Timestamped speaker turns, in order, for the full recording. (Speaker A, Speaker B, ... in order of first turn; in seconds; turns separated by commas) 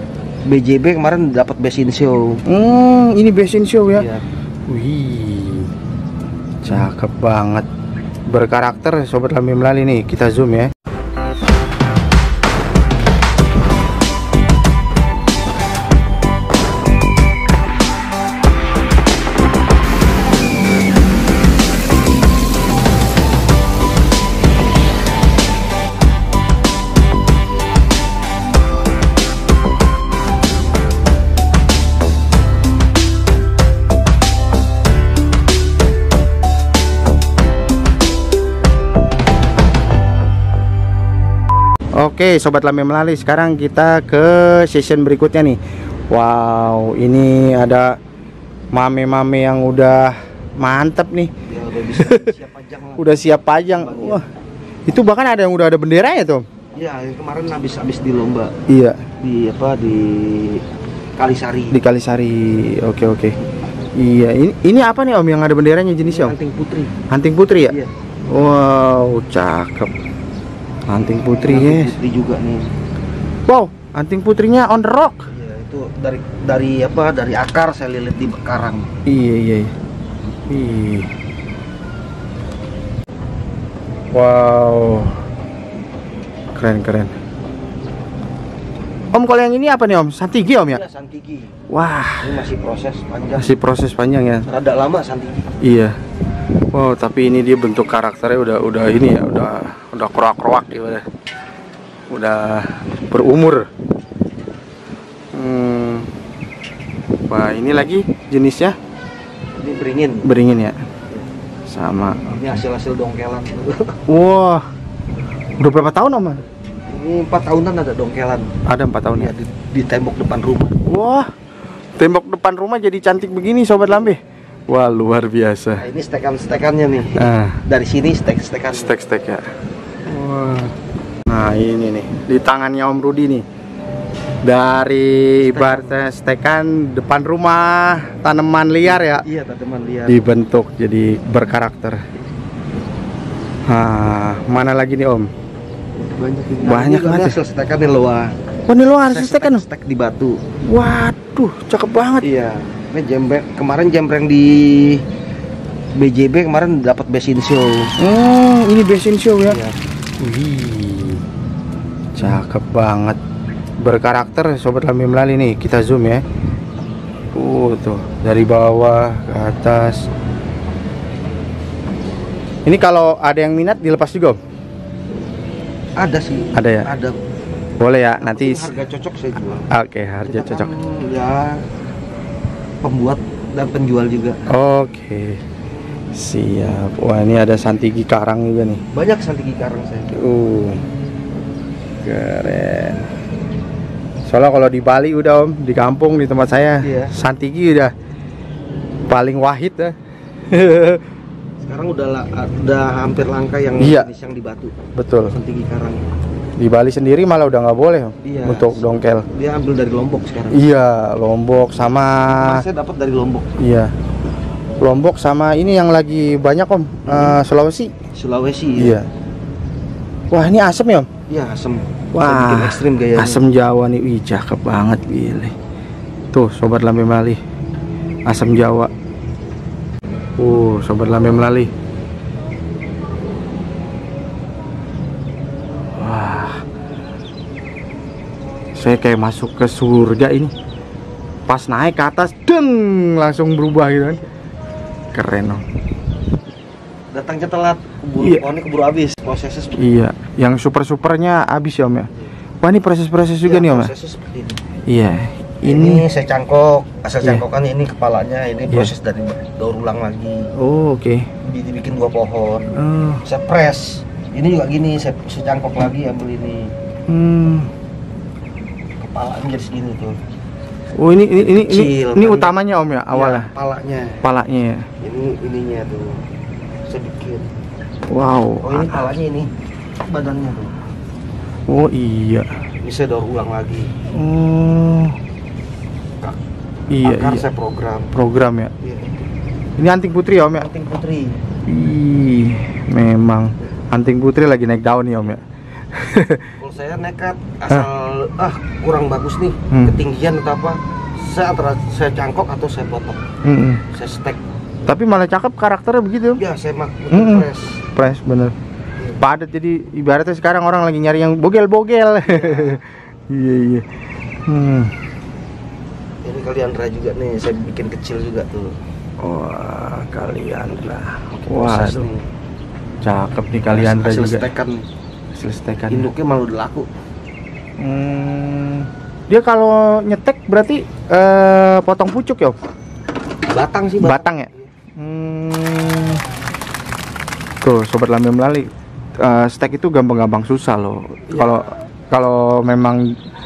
Speaker A: 0.5-2.4, Speaker B: 2.5-4.0, Speaker A: 4.0-4.2, Speaker B: 4.7-5.7, Speaker B: 6.6-7.7, Speaker B: 8.3-10.7, Speaker B: 42.0-45.6, Speaker B: 46.1-48.0, Speaker B: 48.7-51.3, Speaker A: 51.5-53.2, Speaker B: 51.9-52.3, Speaker B: 53.0-54.2, Speaker A: 53.7-54.2, Speaker B: 54.9-56.4, Speaker A: 56.8-58.5, Speaker B: 58.7-59.0, Speaker A: 59.2-60.6, Speaker A: 61.2-61.8, Speaker B: 61.7-63.3, Speaker B: 64.0-66.3, Speaker A: 66.0-66.9, Speaker B: 67.1-67.7, Speaker B: 68.3-69.9, Speaker B: 70.9-71.9, Speaker A: 71.4-72.7, Speaker B: 73.5-75.2, Speaker A: 75.3-78.9, Speaker B: 79.1-79.7, Speaker B: 80.5-81.1, Speaker B: 84.1-85.2, Speaker B: 86.5-87.1, Speaker B: 89.1-90.8, Speaker A: 90.6-91.5, Speaker B: 91.7-92.4, Speaker A: 92.2-93.5, Speaker B: 93.3-94.5, Speaker A: 94.5-95.5, Speaker B: 95.6-95.9, Speaker B: 96.7-101.0, Speaker B: 102.1-103.7, Speaker B: 105.3-106.1, Speaker B: 107.3-108.8, Speaker A: 109.5-110.3, Speaker B: 110.2-110.8, Speaker B: 111.7-112.6, Speaker A: 112.3-114.0, Speaker B: 114.1-114.7, Speaker B: 115.6-116.4, Speaker A: 116.9-118.5, Speaker B: 118.7-119.3, Speaker A: 119.1-120.8, Speaker B: 120.8-121.3, Speaker B: 122.0-125.8, Speaker A: 125.8-128.9, Speaker B: 127.2-127.6, Speaker B: 128.7-129.4, Speaker B: 130.1-130.7, Speaker B: 131.3-133.4, Speaker B: 134.4-139.2, Speaker A: 135.4-136.0, Speaker A: 138.8-140.2, Speaker B: 140.1-142.0, Speaker B: 143.7-145.3, Speaker A: 146.0-148.3, Speaker B: 146.6-147.4, Speaker B: 148.7-149.6, Speaker A: 149.0-150.4, Speaker B: 150.7-152.2, Speaker A: 152.2-155.0, Speaker A: 156.0-157.9, Speaker B: 158.0-159.6, Speaker A: 159.5-159.7, Speaker B: 160.2-161.2, Speaker B: 162.1-163.2, Speaker B: 163.8-166.2, Speaker B: 167.3-170.0, Speaker B: 172.7-174.4, Speaker A: 176.0-177.1, Speaker B: 176.5-176.9, Speaker B: 177.8-178.7, Speaker A: 178.2-179.7, Speaker B: 179.7-180.7, Speaker A: 180.2-181.6, Speaker A: 182.8-184.4, Speaker B: 184.5-185.4, Speaker B: 186.1-188.8, Speaker A: 188.9-190.2, Speaker B: 190.1-190.8, Speaker B: 192.0-193.0, Speaker B: 194.3-197.9, Speaker A: 196.8-197.1, Speaker B: 199.1-199.9, Speaker B: 200.5-201.0, Speaker A: 201.6-204.7, Speaker B: 203.8-204.1, Speaker B: 204.9-205.3, Speaker A: 205.3-206.0, Speaker B: 206.6-209.2, Speaker A: 208.2-210.6, Speaker B: 210.5-212.6, Speaker A: 212.2-213.5, Speaker B: 213.6-213.9, Speaker B: 214.8-217.9, Speaker A: 217.0-217.4, Speaker A: 218.1-219.0, Speaker B: 218.8-219.1, Speaker B: 220.3-221.1, Speaker A: 221.3-223.4, Speaker B: 222.1-225.5, Speaker B: 226.3-227.4, Speaker B: 228.3-228.9, Speaker B: 230.4-231.7, Speaker B: 235.9-236.6, Speaker B: 238.7-240.5, Speaker B: 241.5-244.2, Speaker B: 245.1-245.6, Speaker A: 247.1-249.9, Speaker B: 249.8-252.1, Speaker B: 252.6-253.9, Speaker A: 253.4-254.6, Speaker B: 254.9-256.0, Speaker A: 255.6-260.5, Speaker B: 260.6-261.3, Speaker A: 261.4-262.7, Speaker B: 262.7-263.2, Speaker A: 263.2-266.7, Speaker B: 267.1-267.7, Speaker A: 269.0-270.2, Speaker B: 270.9-273.5, Speaker A: 271.5-272.5, Speaker A: 273.1-274.2, Speaker B: 274.2-274.9, Speaker A: 275.0-276.2, Speaker A: 276.9-277.5, Speaker B: 278.1-279.0, Speaker A: 278.6-279.5, Speaker A: 280.0-280.7, Speaker B: 281.7-282.5, Speaker A: 282.8-283.9, Speaker B: 284.1-285.2, Speaker B: 286.9-287.4, Speaker A: 287.0-288.1, Speaker B: 288.1-288.7, Speaker A: 288.8-289.2, Speaker B: 289.8-290.7, Speaker A: 290.6-291.4, Speaker B: 291.6-296.5, Speaker A: 296.6-303.2, Speaker B: 299.7-299.9, Speaker B: 303.4-303.8, Speaker A: 303.9-304.4, Speaker B: 304.9-306.4, Speaker A: 306.4-307.8, Speaker B: 307.1-308.5, Speaker B: 309.2-313.9, Speaker A: 312.2-312.8, Speaker B: 314.4-314.9, Speaker A: 316.2-318.8, Speaker B: 319.2-322.1, Speaker A: 321.3-322.2, Speaker B: 323.0-324.5, Speaker A: 323.7-324.8, Speaker B: 325.3-326.1, Speaker A: 325.9-326.9, Speaker B: 327.8-332.6, Speaker A: 333.5-334.7, Speaker B: 334.0-336.2, Speaker B: 337.6-343.1, Speaker A: 341.3-341.8